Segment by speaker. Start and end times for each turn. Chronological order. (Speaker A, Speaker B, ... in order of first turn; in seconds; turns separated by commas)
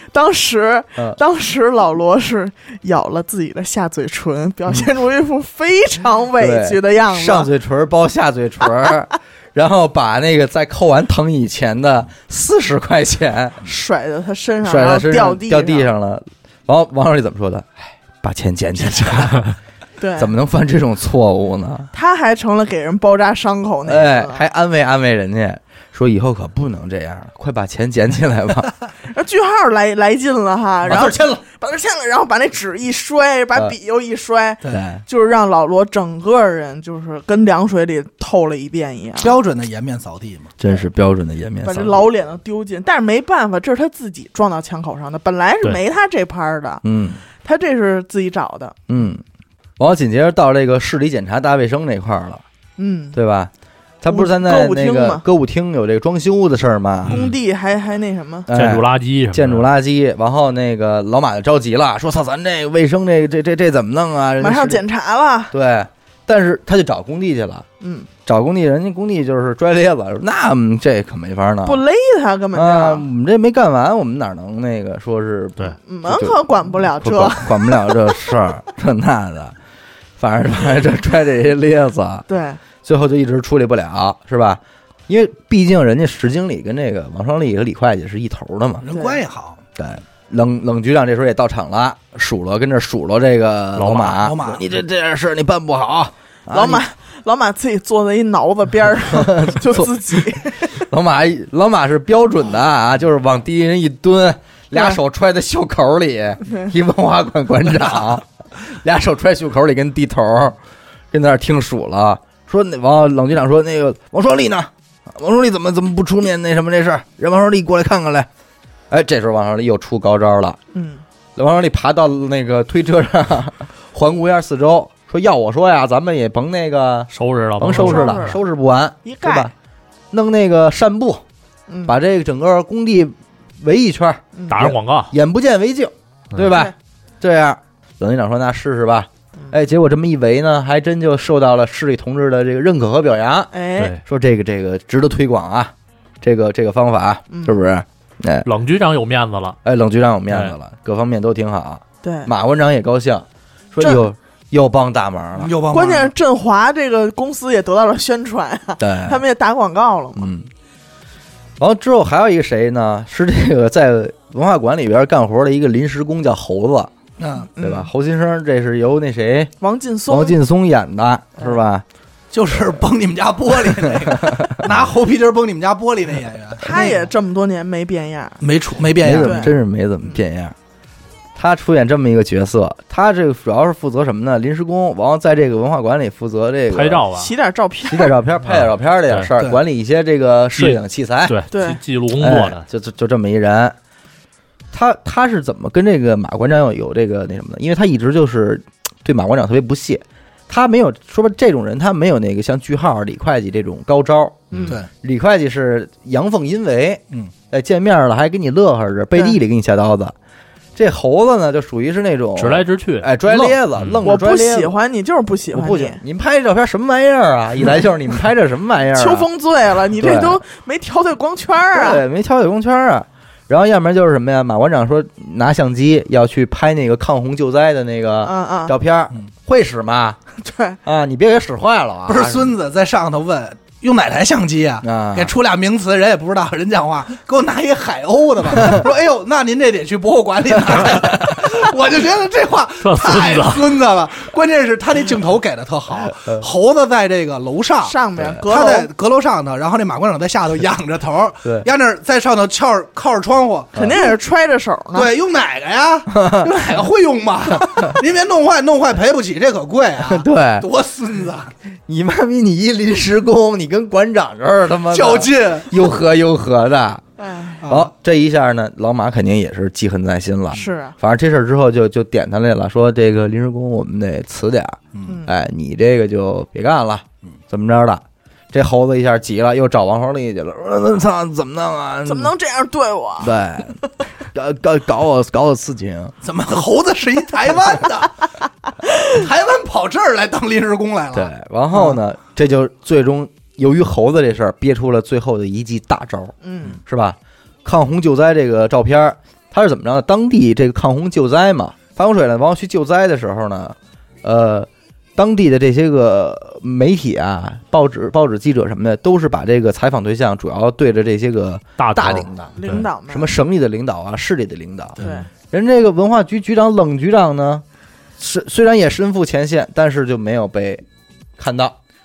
Speaker A: 0.1-7.5, Speaker B: 6.4-13.6, Speaker A: 13.6-15.9, Speaker B: 14.6-19.5, Speaker A: 20.0-20.3, Speaker B: 20.2-21.9, Speaker A: 21.9-24.4, Speaker B: 23.9-28.7, Speaker A: 29.1-39.4, Speaker B: 30.8-31.4, Speaker B: 34.7-35.0, Speaker C: 39.2-40.5, Speaker B: 40.6-42.0, Speaker A: 41.6-46.8, Speaker B: 46.8-47.2, Speaker A: 47.4-48.8, Speaker B: 48.9-49.2, Speaker B: 49.8-52.4, Speaker A: 52.8-53.2, Speaker B: 53.1-53.5, Speaker B: 54.0-57.2, Speaker A: 54.1-55.2, Speaker D: 57.0-57.4, Speaker A: 57.1-58.5, Speaker B: 58.5-64.8, Speaker D: 58.5-59.7, Speaker A: 64.4-65.5, Speaker B: 65.5-67.7, Speaker A: 67.8-68.1, Speaker B: 68.2-71.8, Speaker A: 71.7-73.1, Speaker B: 72.5-79.6, Speaker A: 75.8-78.4, Speaker B: 80.2-82.3, Speaker A: 82.3-82.6, Speaker B: 82.8-88.9, Speaker C: 88.8-89.6, Speaker A: 88.9-89.2, Speaker B: 89.8-96.8, Speaker D: 93.8-94.2, Speaker C: 94.1-94.6, Speaker A: 96.5-100.8, Speaker B: 99.1-110.6, Speaker B: 111.1-118.3, Speaker B: 118.9-120.6, Speaker A: 120.7-121.0, Speaker B: 121.4-129.5, Speaker D: 127.1-128.4, Speaker A: 127.7-128.4, Speaker A: 129.0-129.5, Speaker B: 130.1-131.2, Speaker A: 131.7-131.9, Speaker B: 131.9-148.5, Speaker A: 134.3-134.7, Speaker D: 134.5-135.1, Speaker A: 143.5-143.9, Speaker A: 147.3-147.6, Speaker D: 148.4-149.6, Speaker B: 149.6-155.5, Speaker D: 150.3-150.5, Speaker A: 152.0-152.3, Speaker C: 155.4-156.1, Speaker A: 155.7-160.3, Speaker B: 158.8-159.2, Speaker B: 160.2-160.5, Speaker B: 161.6-166.9, Speaker C: 167.2-167.5, Speaker A: 167.6-167.9, Speaker B: 167.6-169.5, Speaker A: 169.6-170.4, Speaker B: 170.1-171.8, Speaker C: 172.3-177.1, Speaker B: 174.2-174.6, Speaker A: 176.6-178.4, Speaker C: 178.4-179.5, Speaker B: 179.0-180.6, Speaker A: 179.2-179.6, Speaker B: 181.4-187.0, Speaker D: 186.7-187.3, Speaker A: 187.2-188.1, Speaker B: 187.9-191.3, Speaker D: 188.5-189.3, Speaker D: 190.6-192.6, Speaker A: 191.5-191.8, Speaker B: 192.2-193.8, Speaker B: 194.7-210.2, Speaker D: 204.5-204.8, Speaker B: 210.8-214.7, Speaker D: 212.4-214.0, Speaker A: 214.0-216.0, Speaker B: 215.5-219.3, Speaker A: 218.9-222.0, Speaker B: 220.0-220.4, Speaker B: 221.7-230.2, Speaker A: 228.2-228.8, Speaker A: 230.4-230.8, Speaker B: 230.8-232.5, Speaker C: 232.1-253.8, Speaker B: 234.8-235.3, Speaker D: 242.8-243.7, Speaker A: 247.8-248.9, Speaker B: 248.2-248.4, Speaker A: 253.8-255.1, Speaker C: 254.9-261.5, Speaker B: 256.1-256.5, Speaker B: 260.0-260.7, Speaker B: 261.9-267.0, Speaker C: 264.9-265.9, Speaker A: 267.2-267.7, Speaker C: 267.6-267.9, Speaker B: 267.6-282.3, Speaker A: 270.5-271.0, Speaker A: 275.1-275.3, Speaker A: 282.1-283.4, Speaker B: 283.2-286.1, Speaker C: 286.2-288.2, Speaker C: 289.0-292.0, Speaker B: 291.1-317.6, Speaker A: 296.4-296.8, Speaker D: 311.8-312.9, Speaker A: 312.6-313.3, Speaker C: 315.0-315.2, Speaker A: 315.0-315.3, Speaker B: 318.2-320.8, Speaker B: 321.4-321.8